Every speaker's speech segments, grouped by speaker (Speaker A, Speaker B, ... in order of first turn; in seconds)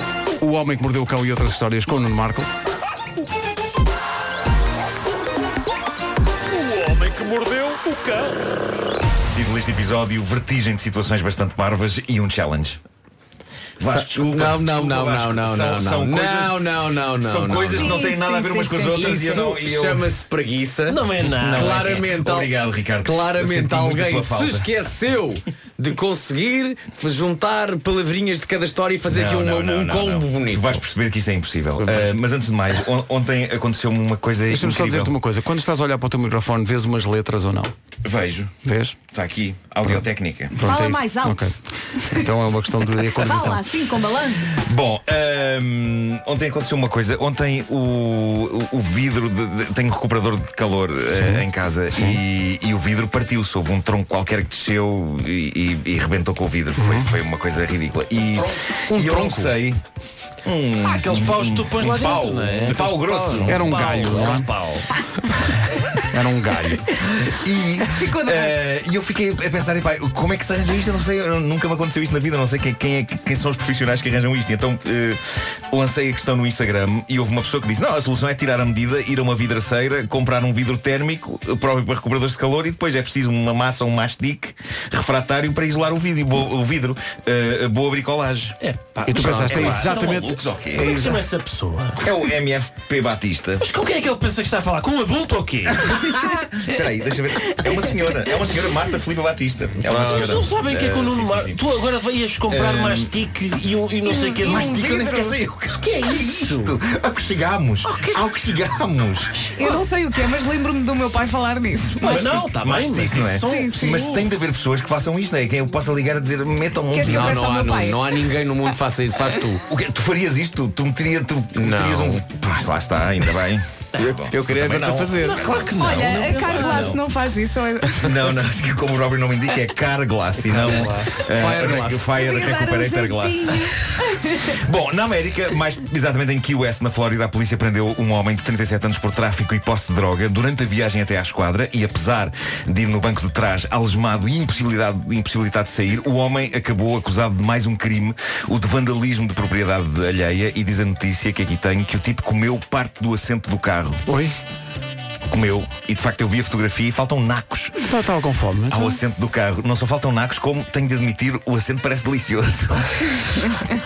Speaker A: 0.4-2.5, 34.5-37.7, 38.6-39.0, 39.9-44.0, 51.1-51.4, 56.8-57.1, 63.4-64.5, 66.1-66.8, 89.1-91.2, 154.1-154.3, 157.8-159.0
Speaker B: 6.5-8.4, 20.9-22.0, 60.8-65.0, 88.6-90.1, 90.8-92.1, 93.6-96.2, 99.8-105.4, 105.9-106.8, 107.8-108.2, 112.0-114.3, 125.2-127.0, 130.5-131.3
Speaker C: 9.3-12.8, 13.8-20.1, 21.6-24.7, 29.1-35.1, 38.0-38.6, 39.1-40.6, 44.3-59.8, 60.4-64.3, 67.0-88.6, 89.5-91.1, 92.0-93.7, 95.8-101.7, 102.5-103.2, 104.4-109.5, 112.0-117.5, 119.7-125.2, 125.7-127.0, 127.9-133.8, 134.6-154.1, 155.3-157.9, 158.7-163.5
Speaker D: 13.8-18.0, 18.8-30.8, 58.4-59.6, 89.1-89.7, 117.0-119.6, 121.5-122.2, 124.0-125.7, 131.3-132.1
Speaker E: 17.7-19.4, 40.7-41.4, 44.2-44.5, 67.9-68.7, 104.1-104.8, 109.6-112.5, 113.4-114.0, 116.9-118.0, 125.7-128.1, 132.0-134.6
Speaker F: 40.6-41.5, 43.2-44.4